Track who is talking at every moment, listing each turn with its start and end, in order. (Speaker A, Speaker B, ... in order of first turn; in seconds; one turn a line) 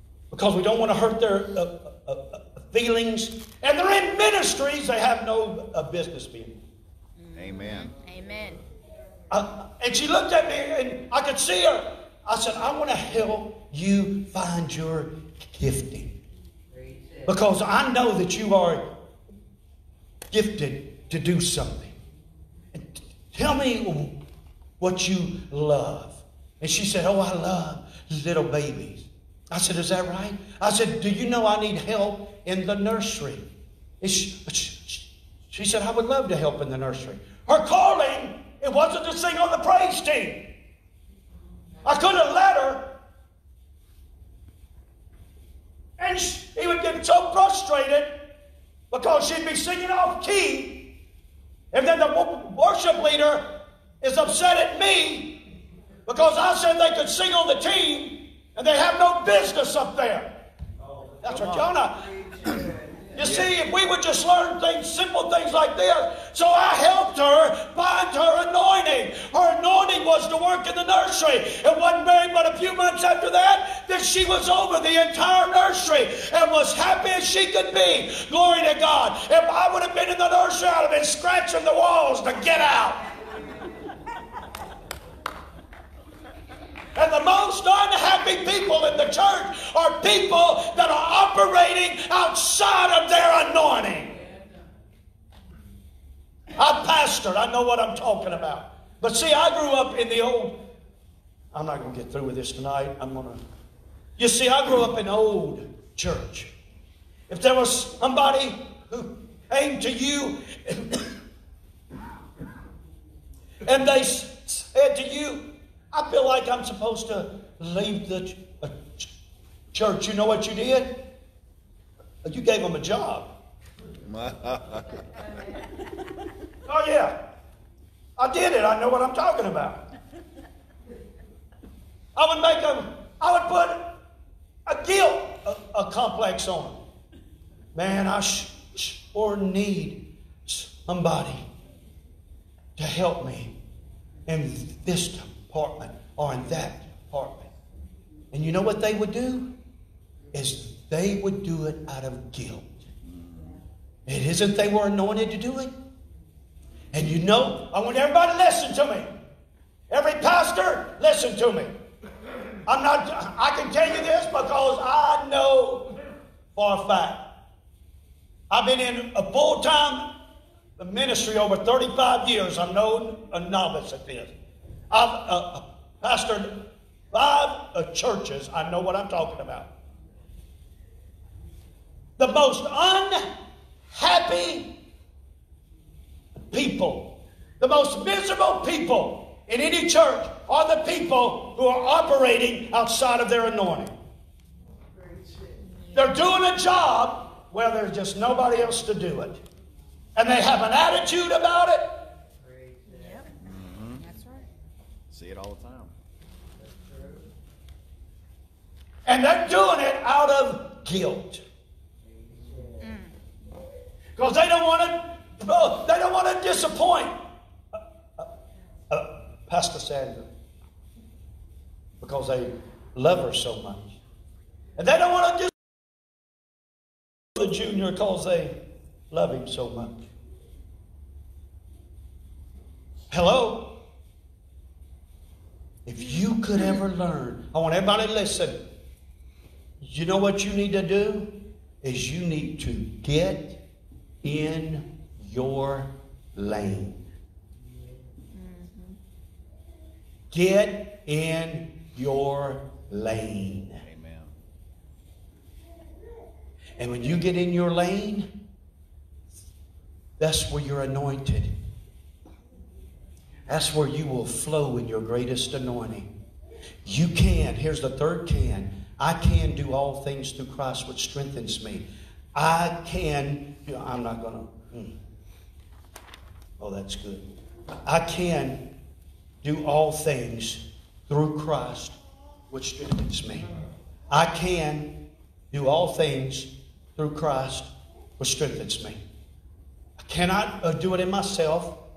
Speaker A: 0.3-6.6
Speaker B: 7.2-8.6
Speaker C: 7.3-7.9
Speaker A: 9.3-16.2
Speaker A: 17.2-18.8
Speaker A: 20.3-21.9
Speaker A: 22.7-24.2
Speaker A: 24.8-33.5
Speaker A: 34.0-40.5
Speaker A: 41.8-42.9
Speaker A: 46.0-48.2
Speaker A: 48.9-50.9
Speaker A: 51.7-55.4
Speaker A: 56.1-60.3
Speaker A: 61.2-62.1
Speaker C: 61.2-61.7
Speaker C: 62.5-63.5
Speaker A: 63.2-83.0
Speaker A: 87.0-94.2
Speaker A: 96.6-100.6
Speaker A: 101.5-103.4
Speaker A: 104.2-106.5
Speaker A: 107.3-111.2
Speaker A: 113.6-119.1
Speaker A: 119.7-121.0
Speaker A: 122.2-123.3
Speaker C: 124.0-124.9
Speaker A: 126.7-127.2
Speaker A: 128.2-129.8
Speaker A: 132.2-133.9
Speaker A: 134.7-136.8
Speaker A: 137.8-141.5
Speaker A: 142.8-143.5
Speaker A: 144.3-147.5
Speaker A: 148.3-149.5
Speaker A: 150.3-152.8
Speaker C: 153.1-153.5
Speaker A: 154.1-155.7
Speaker A: 156.9-159.1
Speaker A: 159.9-161.7
Speaker A: 162.7-165.9
Speaker A: 166.6-167.2
Speaker A: 168.5-170.1
Speaker A: 170.8-174.3
Speaker A: 174.9-179.7
Speaker A: 182.2-183.3
Speaker A: 183.9-184.7
Speaker A: 186.5-193.9
Speaker A: 195.9-199.4
Speaker A: 200.2-202.0
Speaker B: 202.9-203.3
Speaker C: 203.4-204.0
Speaker B: 204.0-204.5
Speaker C: 205.1-205.9
Speaker A: 209.1-211.4
Speaker B: 212.8-213.1
Speaker A: 214.2-217.2
Speaker A: 217.8-218.3
Speaker A: 218.9-220.3
Speaker A: 222.0-224.0
Speaker A: 224.8-225.8
Speaker A: 227.3-228.6
Speaker A: 229.1-230.0
Speaker A: 233.1-233.8
Speaker A: 235.9-238.6
Speaker A: 239.8-243.6
Speaker A: 244.2-247.0
Speaker B: 248.3-249.0
Speaker A: 250.3-253.8
Speaker C: 253.8-254.3
Speaker A: 256.8-258.3
Speaker A: 260.2-261.6
Speaker A: 263.5-266.1
Speaker A: 266.8-274.9
Speaker A: 276.6-277.3
Speaker A: 277.9-278.6
Speaker A: 279.4-282.0
Speaker A: 282.5-283.5
Speaker A: 284.1-284.9
Speaker A: 285.5-289.0
Speaker A: 290.0-291.8